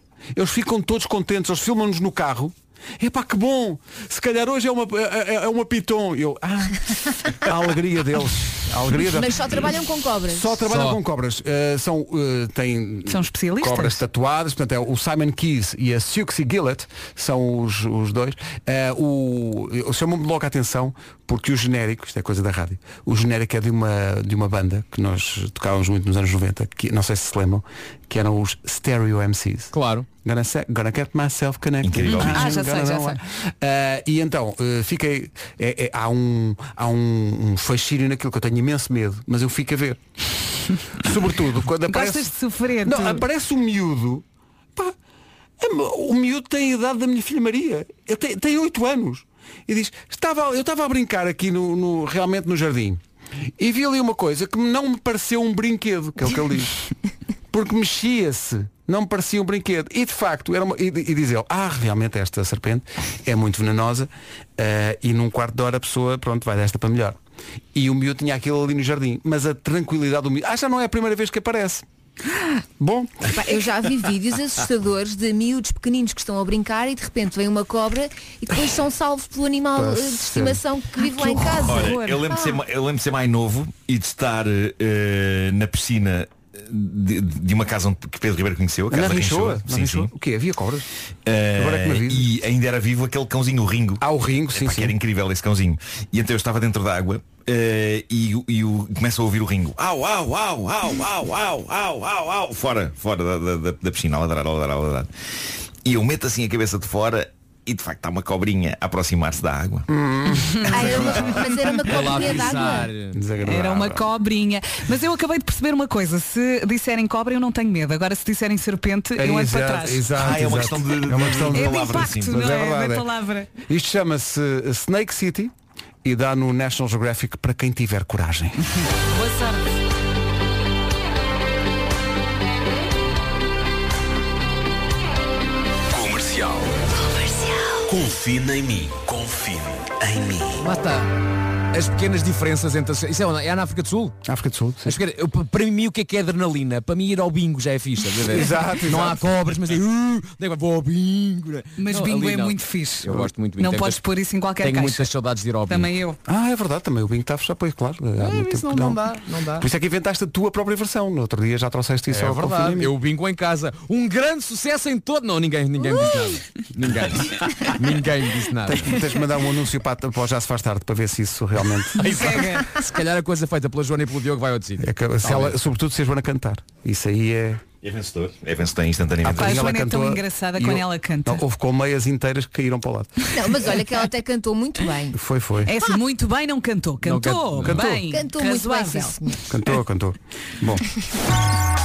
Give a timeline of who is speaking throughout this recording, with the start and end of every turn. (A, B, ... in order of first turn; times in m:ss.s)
0:00.4-0:09.7 A
0:09.0-0:10.6 B
0:10.3-0:40.0 A
0:10.7-0:11.0 C
0:13.1-0:14.0 D
0:29.7-0:30.1 C
0:31.8-0:32.5 E
0:32.1-0:33.2 D
0:41.0-0:44.2 A
0:41.9-0:43.2 D
0:45.6-0:53.0 A
0:53.6-0:56.8 A
0:57.5-1:07.2 A
1:07.7-1:11.8 A
1:12.8-1:13.4 A
1:13.3-1:22.6 B
1:19.7-1:20.6 A
1:21.7-1:30.1 E
1:28.9-1:30.9 A
1:31.3-1:45.1 E
1:31.6-1:32.3 A
1:34.0-1:35.0 A
1:45.8-1:49.9 E
1:49.9-1:51.3 A
1:50.7-1:52.9 B
1:51.8-1:53.2 C
1:53.1-1:54.0 A
1:53.4-2:00.2 D
1:59.2-2:03.1 A
2:00.2-2:02.4 E
2:01.5-2:03.5 D
2:03.7-2:05.5 A
2:06.0-2:08.6 A
2:08.8-2:09.6 D
2:15.9-2:16.8 F
2:17.8-2:20.7 F
2:20.6-2:21.1 C
2:21.7-2:24.2 C
2:24.3-2:25.0 A
2:24.8-2:34.0 C
2:28.2-2:29.3 A
2:31.8-2:35.1 D
2:34.6-2:35.9 C
2:35.7-2:36.2 D
2:36.3-2:42.9 A
2:38.2-2:39.7 C
2:42.1-2:49.0 C
2:48.7-2:52.4 A
2:52.0-2:52.6 D
2:52.0-2:55.6 C
2:54.8-2:57.6 A
2:57.8-2:59.7 E
2:59.2-3:03.1 A
2:59.4-3:01.4 D
3:03.3-3:05.2 B
3:05.1-3:05.7 A
3:05.7-3:09.2 D
3:07.0-3:07.9 C
3:07.6-3:08.0 A
3:08.1-3:09.4 B
3:09.5-3:10.8 A